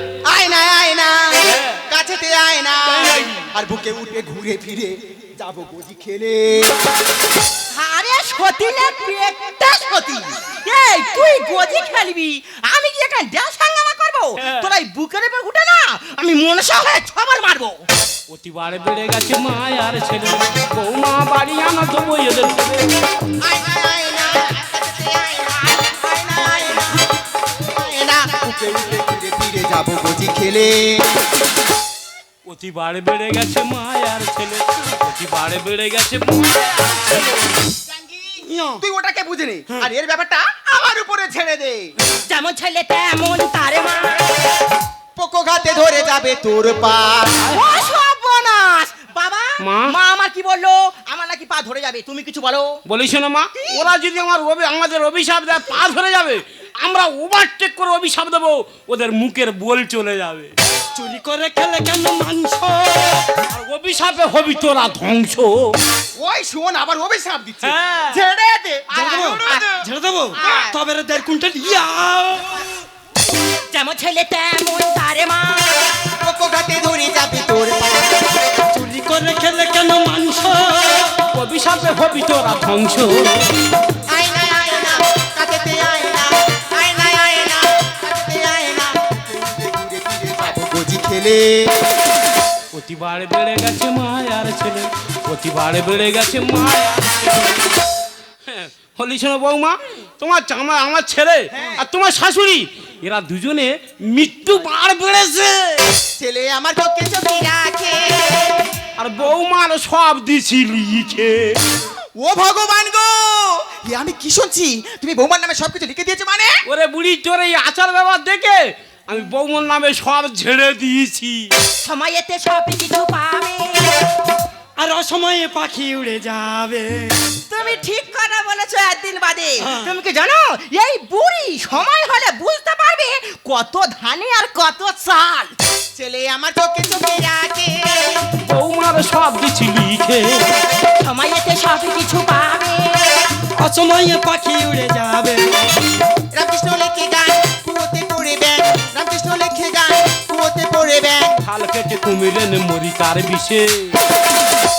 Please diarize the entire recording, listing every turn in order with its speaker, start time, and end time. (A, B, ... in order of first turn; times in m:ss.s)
0:00.3-0:06.8 A
0:01.4-0:01.8 B
0:02.9-0:03.4 B
0:07.7-0:17.9 C
0:14.4-0:14.7 B
0:18.3-0:23.1 B
0:23.4-0:31.1 A
0:28.0-0:28.3 C
0:32.5-0:37.6 B
0:37.8-0:41.9 A
0:38.4-0:38.8 D
0:42.2-0:44.2 C
0:45.2-0:47.4 A
0:47.5-0:52.8 C
0:49.6-0:49.9 B
0:52.9-1:00.5 B
0:53.6-0:53.9 C
1:01.0-1:03.4 D
1:03.5-1:05.7 B
1:06.2-1:09.8 A
1:07.6-1:08.2 B
1:08.9-1:12.6 D
1:10.4-1:10.7 A
1:13.7-1:15.9 C
1:16.2-1:18.5 A
1:18.7-1:21.2 D
1:21.3-1:23.5 B
1:24.1-1:32.0 A
1:32.7-1:37.7 B
1:38.5-1:46.0 B
1:41.5-1:41.9 A
1:46.2-1:48.8 A
1:49.0-1:51.6 B
1:52.2-1:56.6 A
1:56.7-2:01.5 B
2:01.8-2:04.0 C
2:04.8-2:07.2 D
2:07.5-2:15.6 C
2:09.6-2:09.9 D
2:16.0-2:18.3 A
2:18.4-2:20.5 B
2:21.0-2:23.3 C
2:23.6-2:25.8 D
2:26.3-2:31.4 A
2:31.4-2:34.0 B